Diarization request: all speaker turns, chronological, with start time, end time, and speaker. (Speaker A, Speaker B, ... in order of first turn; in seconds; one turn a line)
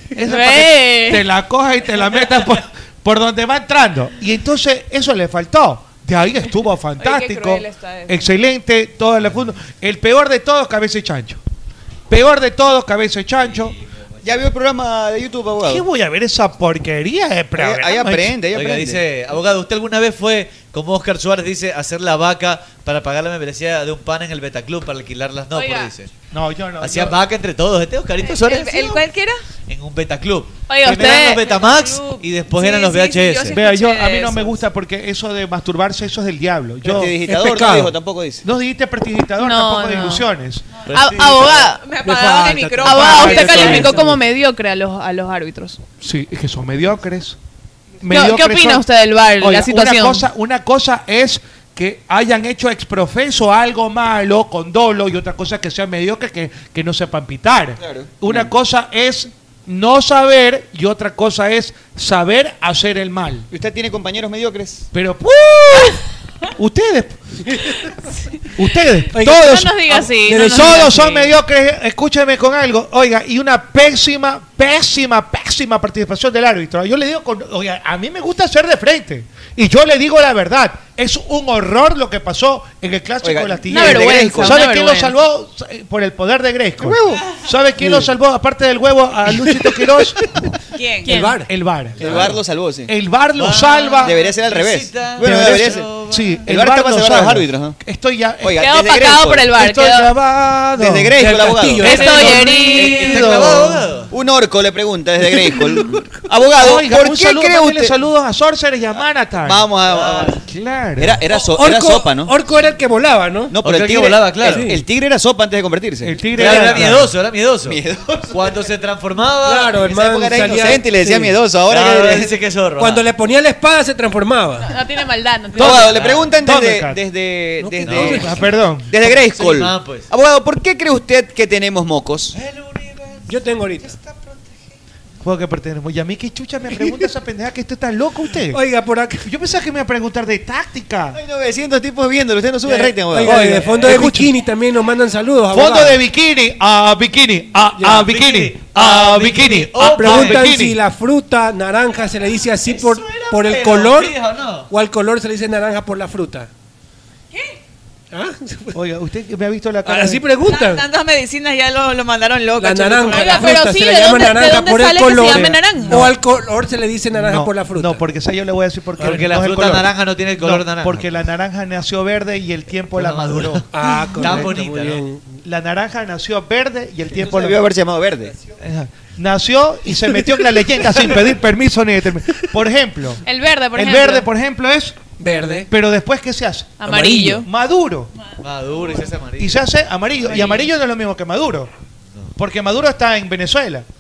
Speaker A: 0.2-11.4
Speaker B: 0.2-1.2
Speaker C: 7.0-8.2
Speaker A: 12.1-13.8
Speaker D: 13.5-13.8
Speaker E: 14.2-15.8
Speaker A: 15.7-18.4
Speaker E: 17.6-19.1
Speaker D: 18.5-26.1
Speaker B: 25.5-25.9
Speaker A: 26.3-27.2
Speaker D: 26.8-29.0
Speaker C: 28.3-29.4
Speaker D: 29.7-33.6
Speaker B: 30.7-31.6
Speaker A: 30.9-31.4
Speaker C: 31.5-34.6
Speaker A: 33.5-37.2
Speaker E: 36.8-38.5
Speaker F: 37.2-38.0
Speaker A: 38.4-40.6
Speaker B: 39.4-40.2
Speaker D: 40.9-41.7
Speaker B: 40.9-41.8
Speaker C: 41.5-44.0
Speaker F: 42.0-42.8
Speaker B: 42.8-45.8
Speaker A: 42.9-44.0
Speaker D: 43.1-43.4
Speaker F: 43.5-44.2
Speaker A: 46.0-47.4
Speaker A: 48.0-48.9
Speaker B: 48.1-50.3
Speaker A: 49.4-63.5
Speaker E: 57.8-58.5
Speaker E: 63.5-64.8
Speaker A: 64.9-66.0
Speaker A: 66.6-67.2
Speaker A: 68.6-90.2
Speaker F: 69.1-71.3
Speaker B: 69.2-71.2
Speaker E: 83.2-84.6
Speaker B: 83.7-85.1
Speaker E: 86.8-87.2
Speaker F: 87.8-88.1
Speaker F: 89.4-90.3
Speaker C: 90.8-91.2
Speaker B: 91.0-91.3
Speaker F: 91.1-91.5
Speaker A: 91.5-92.2
Speaker E: 92.0-92.9
Speaker F: 92.0-92.3
Speaker A: 92.9-94.2
Speaker D: 93.4-96.5
Speaker E: 94.0-95.9
Speaker A: 95.2-98.6
Speaker E: 96.5-97.8
Speaker E: 98.4-99.5
Speaker B: 98.6-100.1
Speaker A: 99.5-101.2
Speaker E: 100.8-107.9
Speaker F: 101.2-102.6
Speaker B: 101.8-103.3
Speaker A: 102.0-103.9
Speaker D: 102.1-104.1
Speaker A: 106.6-109.7
Speaker E: 109.4-110.4
Speaker D: 109.9-110.3
Speaker A: 110.3-111.2
Speaker E: 111.0-112.3
Speaker F: 111.5-113.6
Speaker E: 113.5-117.1
Speaker D: 113.6-114.7
Speaker F: 114.4-114.8
Speaker A: 116.0-117.1
Speaker D: 116.3-119.8
Speaker E: 117.6-118.6
Speaker F: 119.4-121.4
Speaker E: 119.8-122.3
Speaker D: 121.6-123.0
Speaker F: 122.8-124.7
Speaker B: 124.6-126.0
Speaker A: 125.6-127.0
Speaker E: 125.6-132.3
Speaker D: 125.8-126.3
Speaker F: 127.6-128.5
Speaker D: 127.8-128.3
Speaker A: 128.1-129.1
Speaker D: 129.1-130.1
Speaker D: 132.3-134.5
Speaker F: 133.3-134.0
Speaker A: 135.2-138.6
Speaker F: 138.5-139.3
Speaker A: 139.2-141.2
Speaker E: 141.1-143.5
Speaker F: 142.6-146.0
Speaker A: 143.2-144.3
Speaker A: 145.5-150.8
Speaker F: 147.8-148.1
Speaker D: 147.9-150.6
Speaker F: 149.8-154.2
Speaker D: 152.7-154.7
Speaker F: 154.7-156.5
Speaker F: 158.1-158.8
Speaker A: 158.7-160.2
Speaker F: 159.8-160.9
Speaker C: 160.5-163.6
Speaker F: 162.6-168.0
Speaker B: 163.1-165.4
Speaker C: 165.0-166.1
Speaker A: 167.1-173.6
Speaker F: 169.0-169.4
Speaker D: 169.0-171.1
Speaker D: 172.9-175.0
Speaker F: 173.7-175.3
Speaker A: 174.2-174.5
Speaker A: 175.4-177.6
Speaker E: 177.2-178.4
Speaker A: 178.6-183.2
Speaker B: 183.2-184.3
Speaker A: 183.8-185.1
Speaker F: 185.2-185.7
Speaker A: 185.7-188.1
Speaker B: 186.8-187.5
Speaker D: 188.4-189.7
Speaker A: 189.4-191.7
Speaker D: 190.2-190.7
Speaker A: 192.4-193.8